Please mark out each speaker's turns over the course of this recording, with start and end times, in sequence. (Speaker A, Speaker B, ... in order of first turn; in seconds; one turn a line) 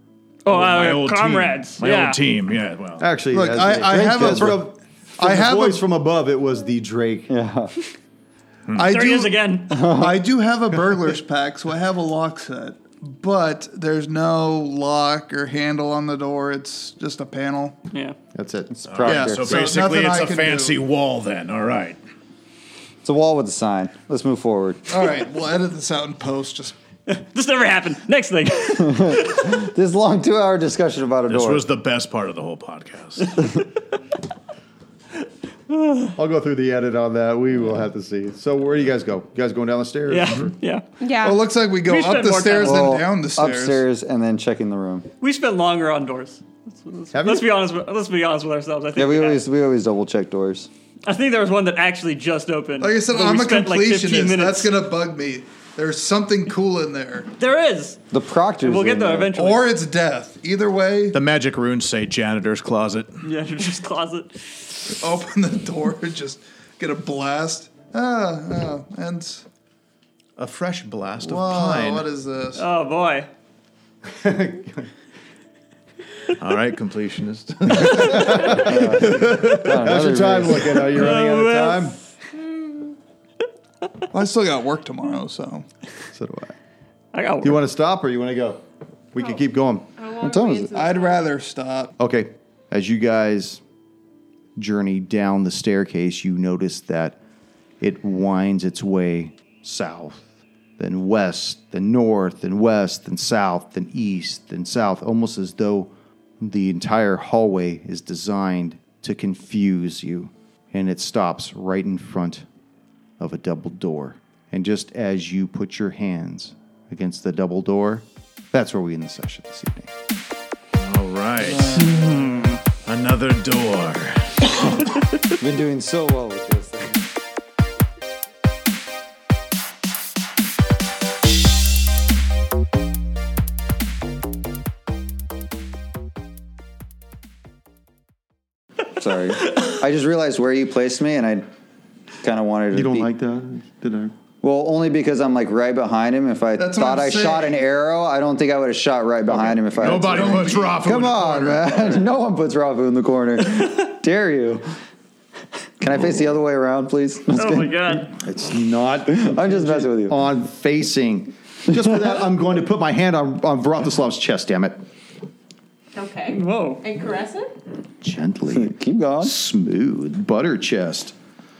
Speaker A: 0.4-2.2
Speaker B: 0.5-3.1
Speaker C: 3.0-7.3
Speaker D: 3.3-5.8
Speaker E: 7.3-7.7
Speaker D: 8.7-17.8
Speaker A: 8.8-10.0
Speaker E: 9.7-10.2
Speaker A: 17.9-18.2
Speaker C: 18.3-18.7
Speaker E: 18.7-19.7
Speaker B: 18.9-22.0
Speaker D: 19.0-20.7
Speaker E: 23.0-24.9
Speaker D: 24.9-26.7
Speaker A: 27.1-29.4
Speaker E: 28.7-31.6
Speaker B: 31.3-33.4
Speaker A: 35.7-36.1
Speaker C: 36.1-40.5
Speaker A: 40.1-40.9
Speaker F: 41.0-41.4
Speaker D: 41.2-43.9
Speaker A: 41.8-43.0
Speaker E: 42.6-45.1
Speaker A: 45.2-49.4
Speaker C: 47.1-47.5
Speaker E: 49.0-50.7
Speaker A: 51.0-54.8
Speaker D: 52.8-57.3
Speaker A: 57.4-58.0
Speaker E: 58.1-59.3
Speaker A: 58.6-59.7
Speaker D: 59.3-61.2
Speaker B: 61.1-63.2
Speaker A: 63.2-64.6
Speaker D: 65.0-69.5
Speaker B: 70.4-72.1
Speaker D: 71.2-72.7
Speaker A: 72.5-73.3
Speaker C: 74.1-74.9
Speaker B: 76.4-78.5
Speaker C: 77.6-82.0
Speaker E: 78.4-80.8
Speaker A: 80.8-82.0
Speaker D: 84.1-85.7
Speaker C: 86.1-86.5
Speaker A: 87.1-87.6
Speaker C: 87.4-89.9
Speaker F: 90.0-91.3
Speaker E: 90.2-90.7
Speaker D: 90.7-91.9
Speaker C: 92.0-93.6
Speaker C: 94.5-97.2
Speaker C: 97.8-100.3
Speaker C: 100.8-112.5
Speaker C: 113.2-119.9
Speaker B: 120.8-122.1
Speaker D: 121.4-122.5
Speaker A: 121.9-122.6
Speaker B: 122.7-124.8
Speaker E: 125.4-127.0
Speaker E: 138.9-141.5
Speaker E: 142.2-143.1
Speaker C: 142.7-144.2
Speaker E: 144.4-154.6
Speaker D: 146.6-147.6
Speaker B: 149.7-152.0
Speaker D: 150.0-150.7
Speaker E: 155.8-158.2
Speaker A: 157.3-158.1
Speaker C: 158.2-164.8
Speaker E: 159.1-160.2
Speaker F: 165.9-167.5
Speaker A: 166.3-166.8
Speaker C: 168.0-171.1
Speaker E: 168.5-169.3